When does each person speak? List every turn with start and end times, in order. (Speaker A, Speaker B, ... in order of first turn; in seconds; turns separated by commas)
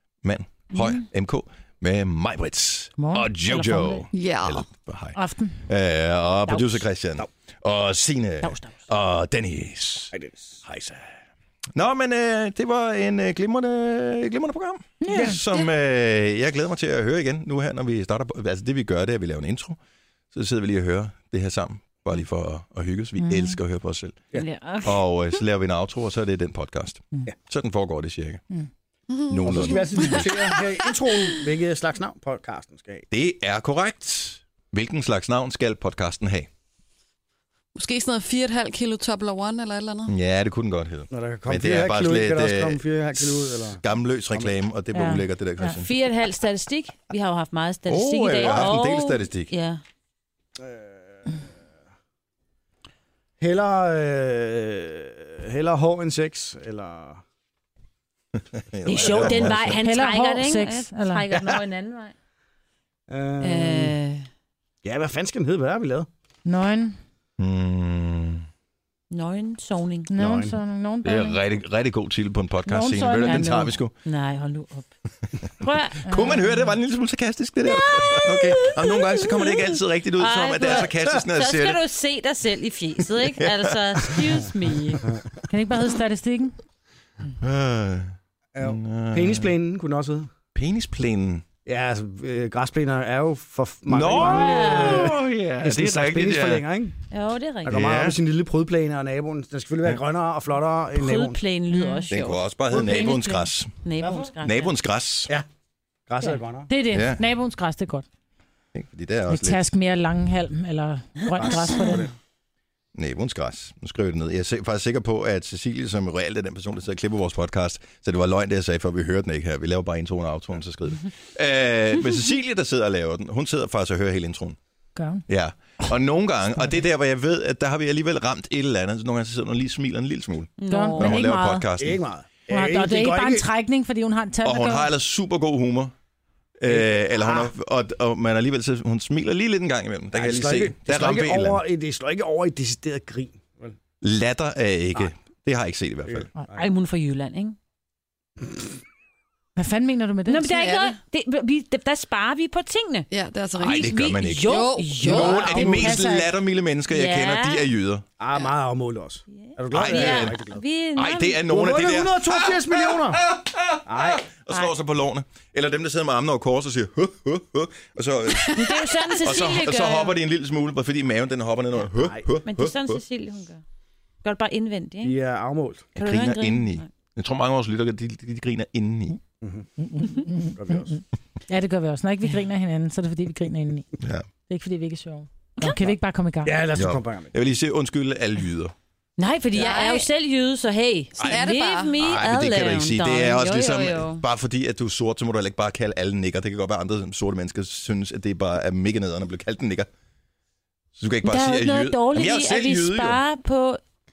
Speaker A: 0.2-10.1, Speaker B: 0.8-1.0, Speaker B: 3.0-4.0, Speaker C: 4.1-4.7, Speaker B: 5.1-5.6, Speaker B: 8.4-8.9, Speaker D: 10.1-10.6, Speaker A: 10.6-11.1, Speaker A: 11.7-19.8, Speaker B: 15.0-15.4, Speaker A: 20.3-24.2, Speaker B: 23.2-23.6, Speaker E: 24.4-25.0, Speaker A: 24.8-28.4, Speaker C: 29.1-29.8, Speaker A: 29.3-30.2, Speaker D: 29.4-33.0, Speaker A: 33.1-36.5, Speaker C: 37.7-40.1, Speaker A: 40.1-45.9, Speaker D: 41.1-43.8, Speaker B: 44.9-45.7, Speaker E: 45.7-49.8, Speaker A: 47.9-49.5, Speaker D: 48.4-48.7, Speaker D: 50.6-51.4, Speaker D: 53.4-57.2, Speaker A: 58.5-59.8, Speaker E: 58.9-62.1, Speaker D: 59.0-59.6, Speaker B: 59.8-61.2, Speaker D: 63.1-64.0, Speaker E: 63.4-64.2, Speaker D: 64.8-66.1, Speaker B: 66.4-67.0, Speaker A: 67.4-68.4, Speaker E: 69.1-70.1, Speaker B: 70.1-71.4, Speaker D: 70.2-70.5, Speaker A: 71.0-73.9, Speaker B: 72.7-73.7, Speaker E: 73.2-74.9, Speaker E: 75.6-76.5, Speaker A: 76.0-81.8, Speaker B: 76.1-76.4, Speaker E: 77.8-85.0, Speaker A: 83.2-83.8, Speaker B: 85.5-86.5, Speaker A: 87.4-89.5, Speaker D: 88.5-90.3, Speaker A: 90.5-91.4, Speaker D: 91.7-96.9, Speaker A: 93.9-96.6, Speaker E: 94.1-95.1, Speaker E: 97.1-97.7, Speaker D: 97.6-101.4, Speaker A: 97.7-98.2, Speaker E: 100.9-104.7, Speaker B: 101.7-102.0, Speaker A: 102.1-103.8, Speaker D: 104.0-104.3, Speaker A: 104.4-105.3, Speaker D: 106.1-106.7, Speaker B: 106.7-108.0, Speaker A: 106.9-107.2, Speaker A: 108.7-109.6, Speaker B: 109.3-112.0, Speaker D: 111.4-112.1, Speaker A: 112.9-124.6, Speaker B: 125.0-125.2, Speaker A: 125.3-132.0, Speaker E: 130.6-131.1, Speaker B: 130.7-131.6, Speaker D: 131.8-133.4, Speaker B: 132.5-134.9, Speaker A: 134.4-135.9, Speaker A: 136.6-141.6, Speaker D: 136.7-137.5, Speaker D: 140.1-143.8, Speaker A: 144.0-146.3, Speaker D: 146.1-146.6, Speaker E: 146.5-147.6, Speaker B: 149.6-150.5, Speaker E: 150.3-155.6, Speaker C: 150.5-150.9, Speaker C: 153.1-155.5, Speaker A: 153.6-158.0, Speaker D: 155.0-155.9, Speaker B: 155.4-156.3, Speaker E: 156.9-157.6, Speaker D: 158.2-160.6, Speaker E: 159.3-161.4, Speaker A: 159.7-160.4, Speaker A: 160.9-173.0, Speaker D: 161.4-163.3, Speaker D: 163.8-164.2, Speaker E: 168.5-170.2, Speaker D: 171.8-172.2, Speaker E: 172.4-173.6, Speaker E: 174.2-175.2, Speaker D: 175.0-175.9, Speaker A: 175.9-179.2, Speaker E: 176.0-176.9, Speaker D: 179.4-179.7, Speaker B: 179.8-183.9, Speaker D: 180.6-181.0, Speaker A: 184.0-184.2, Speaker B: 184.5-186.6, Speaker D: 186.4-187.3, Speaker A: 186.7-188.7, Speaker E: 189.2-194.2, Speaker C: 189.5-190.1, Speaker C: 191.2-192.0, Speaker A: 191.2-199.9, Speaker A: 201.0-203.2, Speaker E: 201.4-203.8